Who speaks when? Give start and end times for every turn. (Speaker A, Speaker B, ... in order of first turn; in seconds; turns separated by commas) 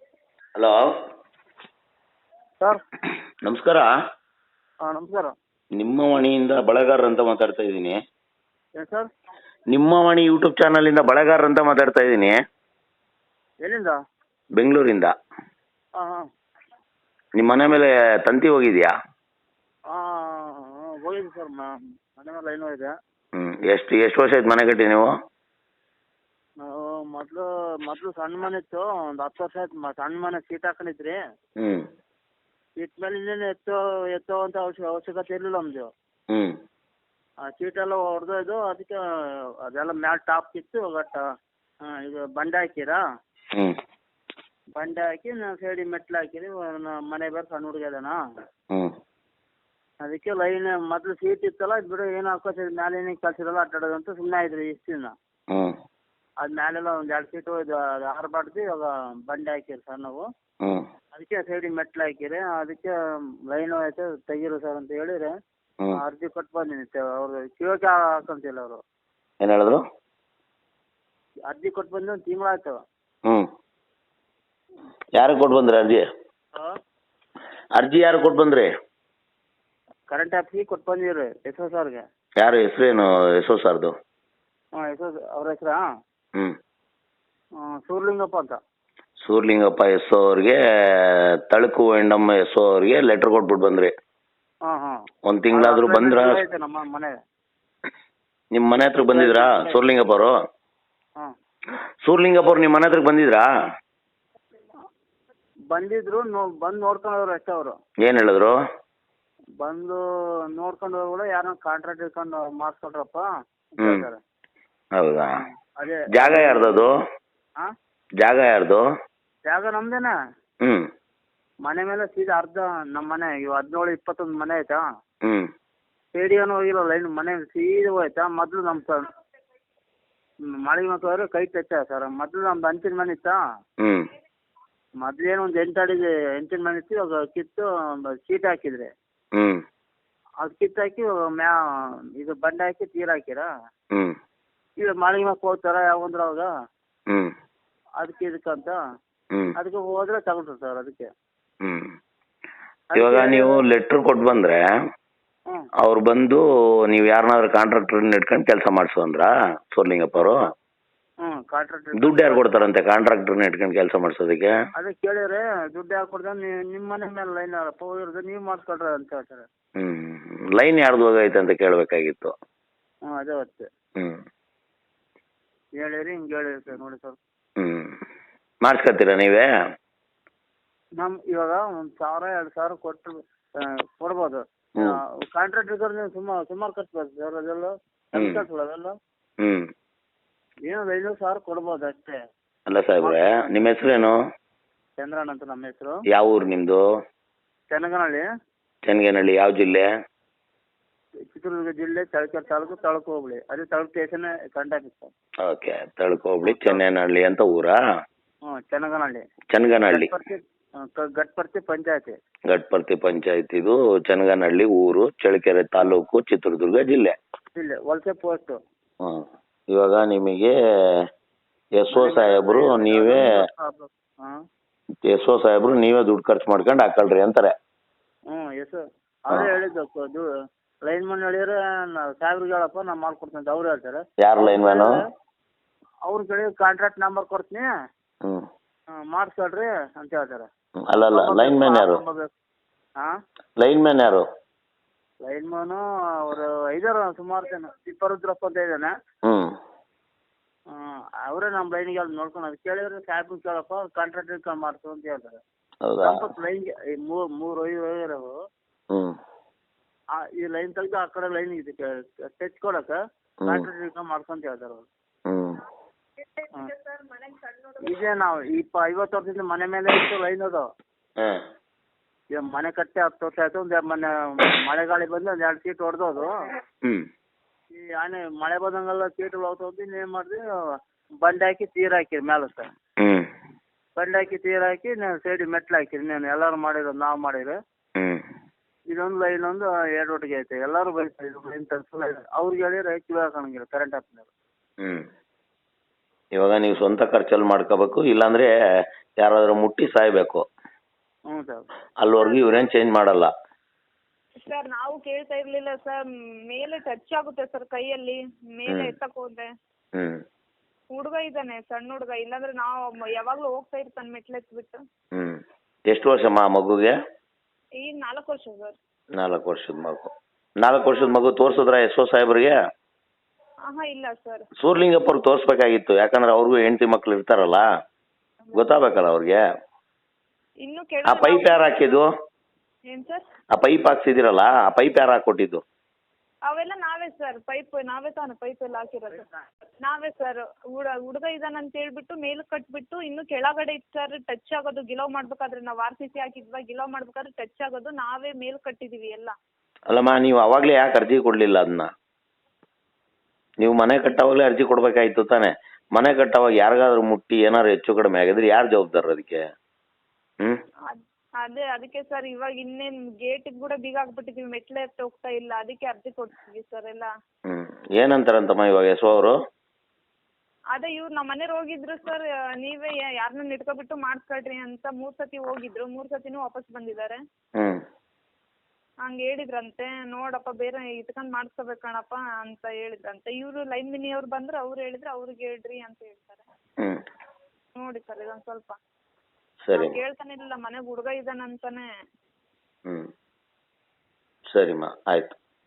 Speaker A: 0.6-0.9, Speaker A: 3.5-3.9, Speaker B: 4.8-5.3, Speaker A: 5.8-8.0, Speaker B: 8.8-9.1, Speaker A: 9.7-12.3, Speaker B: 13.6-14.0, Speaker A: 14.6-15.1, Speaker B: 16.0-16.2, Speaker A: 17.4-18.9, Speaker B: 19.9-22.9, Speaker A: 23.4-25.1, Speaker B: 26.6-31.2, Speaker B: 32.8-35.9, Speaker B: 37.5-39.0, Speaker B: 39.7-41.2, Speaker B: 41.9-43.0, Speaker B: 44.8-48.1, Speaker B: 50.0-55.1, Speaker B: 56.4-60.2, Speaker B: 61.1-62.9, Speaker B: 63.5-65.3, Speaker B: 65.9-68.8, Speaker A: 69.4-69.8, Speaker B: 71.5-72.8, Speaker A: 75.2-76.0, Speaker A: 77.8-78.7, Speaker B: 80.1-82.0, Speaker A: 82.4-83.9, Speaker B: 84.8-85.8, Speaker B: 87.6-88.6, Speaker A: 89.2-93.9, Speaker B: 94.7-94.9, Speaker A: 95.2-96.4, Speaker B: 95.5-97.1, Speaker A: 98.5-100.3, Speaker B: 99.1-99.8, Speaker A: 102.0-103.5, Speaker B: 105.7-107.8, Speaker A: 108.0-108.5, Speaker B: 109.6-110.0, Speaker B: 110.5-114.2, Speaker A: 115.0-115.3, Speaker B: 115.4-116.9, Speaker A: 116.1-116.9, Speaker A: 118.2-118.8, Speaker B: 119.5-120.1, Speaker B: 121.7-124.8, Speaker B: 126.1-129.1, Speaker B: 130.5-133.4, Speaker A: 133.8-134.1, Speaker B: 135.0-138.9, Speaker A: 139.3-139.6, Speaker B: 140.4-141.6, Speaker B: 142.2-143.5, Speaker B: 144.8-146.5, Speaker B: 148.0-148.8, Speaker B: 149.6-151.1, Speaker A: 151.6-151.9, Speaker B: 152.9-153.6, Speaker A: 152.9-154.6, Speaker A: 155.8-160.4, Speaker B: 161.2-162.6, Speaker A: 162.0-164.5, Speaker B: 164.8-169.4, Speaker A: 169.8-172.3, Speaker B: 173.1-173.7, Speaker B: 175.8-177.2, Speaker A: 177.6-177.9, Speaker A: 178.6-179.5, Speaker B: 181.0-183.2, Speaker B: 184.0-188.9, Speaker A: 188.2-188.4, Speaker A: 189.4-189.7, Speaker B: 190.7-192.2, Speaker A: 192.7-194.2, Speaker B: 193.0-193.7, Speaker B: 195.0-195.9, Speaker A: 196.1-196.8, Speaker B: 197.7-198.2, Speaker A: 198.9-199.8, Speaker B: 201.3-205.1, Speaker A: 205.4-207.8, Speaker B: 206.4-206.8, Speaker B: 208.5-209.2, Speaker A: 209.5-210.1, Speaker B: 209.9-212.2, Speaker A: 212.5-217.2, Speaker B: 217.6-218.6, Speaker A: 219.0-220.5, Speaker A: 221.8-223.2, Speaker B: 221.9-224.4, Speaker A: 225.1-227.5, Speaker B: 228.3-230.2, Speaker B: 230.8-235.0, Speaker A: 234.2-234.9, Speaker B: 236.1-237.7, Speaker B: 238.9-240.5, Speaker A: 240.8-242.0, Speaker B: 241.1-242.3, Speaker A: 243.6-244.2, Speaker B: 245.2-248.9, Speaker A: 249.2-249.5, Speaker B: 250.7-255.4, Speaker A: 255.8-256.2, Speaker B: 256.0-258.3, Speaker B: 260.2-261.8, Speaker B: 262.4-262.9, Speaker B: 263.5-264.9, Speaker A: 265.3-265.6, Speaker C: 266.7-267.8, Speaker B: 267.8-270.7, Speaker B: 272.3-276.3, Speaker B: 277.7-280.4, Speaker B: 281.2-282.7, Speaker A: 283.0-283.2, Speaker B: 284.0-287.6, Speaker B: 288.9-294.3, Speaker A: 296.4-298.5, Speaker A: 299.2-300.4, Speaker B: 301.3-301.6, Speaker A: 302.0-303.3, Speaker C: 302.2-302.6, Speaker C: 304.4-309.5, Speaker C: 310.9-314.8, Speaker A: 315.9-316.9, Speaker C: 317.8-318.8, Speaker A: 319.2-320.1, Speaker A: 320.6-322.6, Speaker C: 320.8-321.2, Speaker C: 323.7-324.4, Speaker A: 324.6-327.6, Speaker A: 328.5-329.4, Speaker C: 330.6-332.0, Speaker A: 331.1-332.1, Speaker C: 332.9-333.2, Speaker A: 333.5-335.6, Speaker C: 336.5-339.3, Speaker C: 339.8-349.4, Speaker A: 349.9-351.9, Speaker A: 353.6-359.4, Speaker C: 360.9-367.1, Speaker A: 367.5-369.3, Speaker C: 370.7-377.2, Speaker A: 377.6-377.8, Speaker C: 379.0-386.4, Speaker C: 387.8-388.8, Speaker A: 389.6-390.0, Speaker C: 389.7-391.9, Speaker A: 394.5-395.3